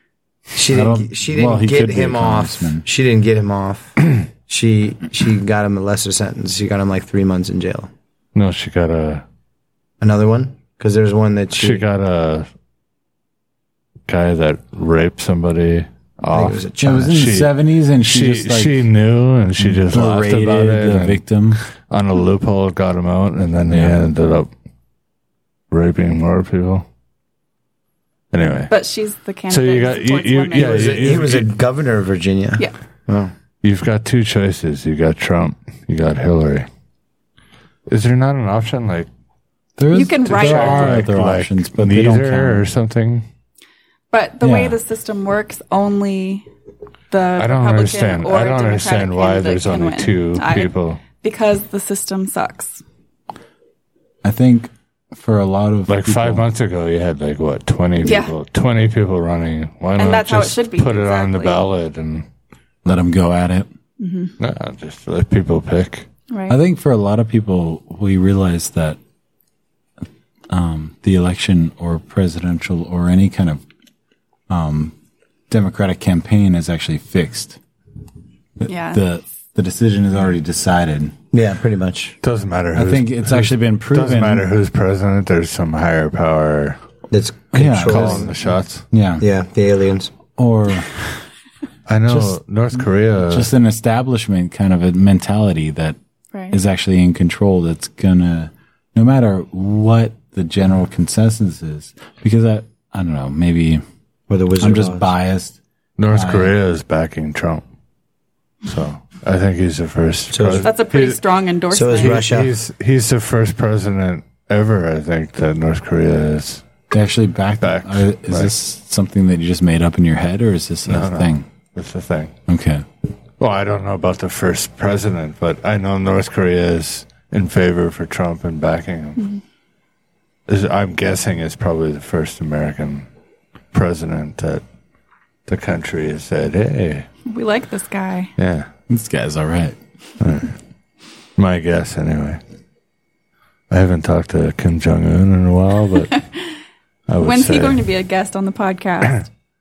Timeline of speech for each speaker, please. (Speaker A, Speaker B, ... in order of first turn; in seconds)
Speaker A: 0.5-7.9, 10.0-11.8, 16.3-17.2, 30.5-33.3, 81.3-82.2, 87.1-88.3, 89.2-90.1, 104.3-105.1, 110.3-110.7, 111.7-112.5
Speaker B: 0.7-2.9, 16.8-18.9, 19.6-21.6, 23.7-24.0, 39.8-42.6, 44.4-44.8, 54.2-56.5, 62.8-63.7, 66.5-69.0, 70.5-73.6, 74.5-74.9, 75.5-77.6, 78.6-81.1, 82.7-84.5, 87.5-88.3, 88.9-89.2, 90.4-91.0, 92.1-92.4, 93.3-96.0, 96.5-103.8, 104.6-105.6, 106.1-106.5, 116.9-121.5, 122.5-122.8, 138.9-139.8
Speaker C: 8.3-9.2, 11.5-12.5, 14.1-24.5, 25.7-26.9, 28.3-28.7, 29.5-31.6, 33.6-36.7, 37.9-39.1, 40.2-43.2, 47.4-51.0, 55.9-62.2, 64.4-66.1, 82.2-86.8, 87.6-88.8, 91.9-93.5, 106.0-107.6, 108.6-111.2, 112.0-116.7, 117.6-118.5, 120.8-122.3, 123.4-129.2, 130.5-133.1, 133.7-134.6, 135.5-137.1, 138.4-138.7, 140.2-140.6, 141.3-142.4, 143.7-146.2, 147.1-147.8
Speaker D: 28.7-31.2, 39.9-41.1, 44.1-46.5, 47.1-52.8, 58.0-58.3, 60.0-61.6, 64.0-64.3, 66.3-66.6, 78.7-79.0, 96.3-96.6, 110.6-112.3, 137.2-138.3, 147.2-149.2